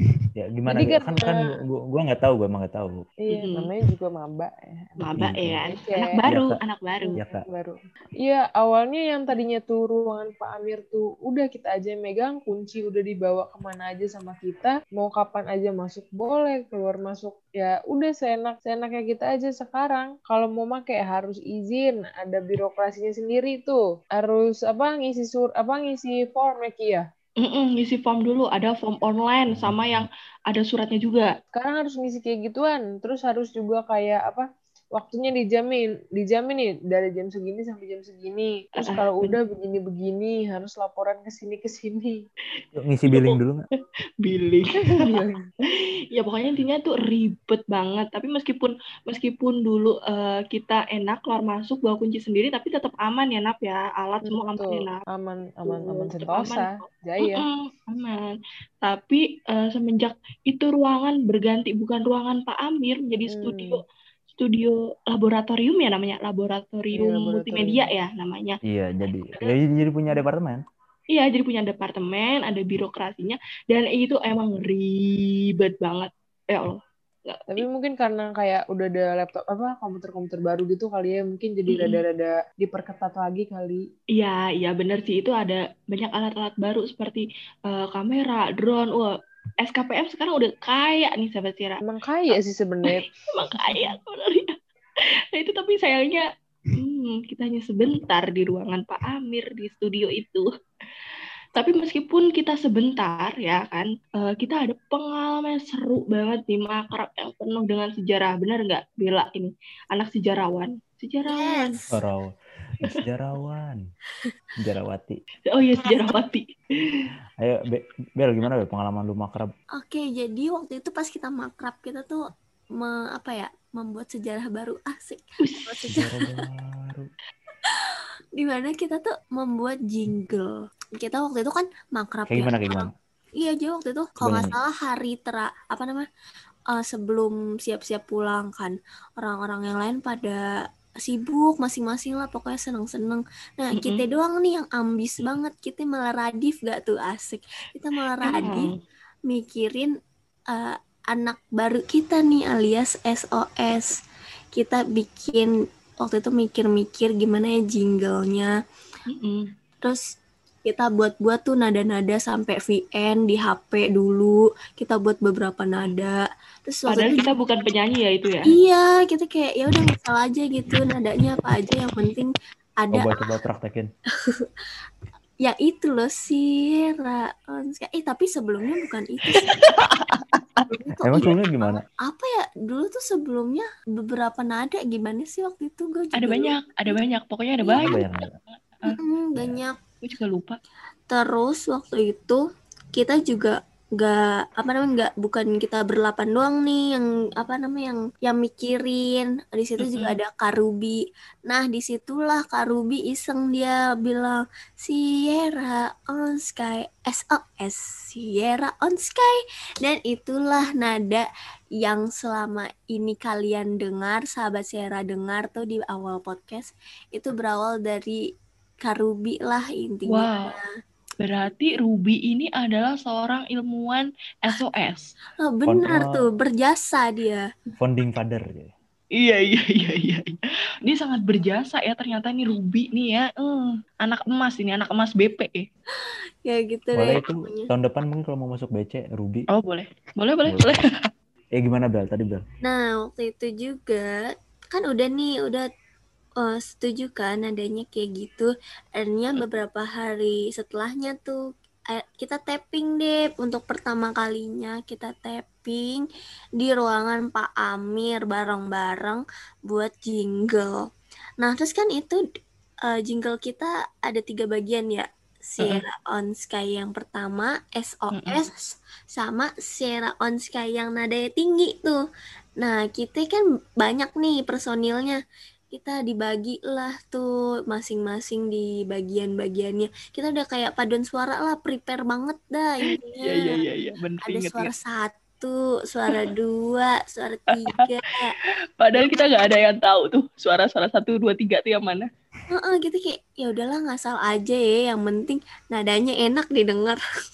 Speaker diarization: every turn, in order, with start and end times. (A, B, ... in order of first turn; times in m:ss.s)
0:00.4-0:03.0 A
0:00.7-0:01.5 B
0:03.2-0:05.0 B
0:03.3-0:03.7 C
0:05.0-0:07.2 C
0:05.2-0:05.6 A
0:05.7-0:06.2 B
0:06.3-0:06.6 A
0:07.0-0:27.1 B
0:07.2-0:07.4 A
0:27.4-0:31.3 C
0:29.5-0:30.0 A
0:31.5-0:42.3 B
0:38.8-0:39.3 C
0:42.7-0:43.6 A
0:43.1-0:43.4 C
0:44.2-0:55.0 C
0:44.9-0:45.3 B
0:54.2-0:57.4 B
0:55.6-1:08.6 C
1:03.3-1:03.8 B
1:06.9-1:07.9 B
1:08.7-1:10.6 A
1:11.1-1:17.6 C
1:17.5-1:23.9 B
1:21.7-1:22.0 C
1:24.1-1:34.5 C
1:31.8-1:33.0 B
1:35.3-1:36.2 C
1:36.8-1:40.4 C
1:41.5-1:51.8 C
1:51.2-1:51.9 D
1:51.9-1:53.8 A
1:54.6-1:55.2 A
1:55.4-1:57.0 C
1:57.4-1:59.5 A
1:59.8-2:02.2 D
2:02.8-2:06.3 D
2:05.4-2:06.0 C
2:05.9-2:07.1 A
2:08.4-2:16.1 D
2:12.3-2:12.9 A
2:14.2-2:14.5 A
2:16.7-2:20.4 D
2:21.0-2:28.7 D
2:23.8-2:24.0 C
2:28.3-2:28.7 C
2:29.3-2:29.9 D
2:30.5-2:33.9 D
2:34.5-2:38.5 D
2:39.1-2:39.5 C
2:40.6-2:47.3 D
2:46.9-2:48.5 C
2:48.4-2:53.3 D
2:52.9-2:53.9 A
2:54.2-2:54.5 D
2:55.4-2:59.6 D
2:59.6-3:00.7 C
3:01.0-3:01.3 D
3:01.0-3:01.8 A
3:02.0-3:07.0 D
3:06.2-3:08.9 C
3:07.7-3:08.3 A
3:08.8-3:09.8 D
3:10.0-3:10.6 C
3:11.1-3:12.4 D
3:12.9-3:31.3 D
3:31.8-3:38.2 D
3:38.8-3:40.7 D
3:40.1-3:40.5 C
3:41.2-3:45.1 C
3:45.4-3:47.4 D
3:45.7-3:46.2 A
3:47.8-3:48.7 A
3:49.2-3:55.6 C
3:56.4-3:57.7 D
3:57.0-3:59.4 A
3:59.5-4:01.0 C
4:00.4-4:00.8 A
4:01.6-4:02.4 A
4:02.6-4:05.7 D
4:06.4-4:11.4 D
4:11.9-4:16.1 D
4:16.6-4:20.9 D
4:21.4-4:22.2 D
4:22.8-4:32.0 D
4:28.1-4:28.4 C
4:32.6-4:35.2 D
4:35.7-4:43.6 D
4:43.2-4:44.7 C
4:44.2-4:48.4 D
4:48.4-4:52.1 C
4:52.5-4:57.0 D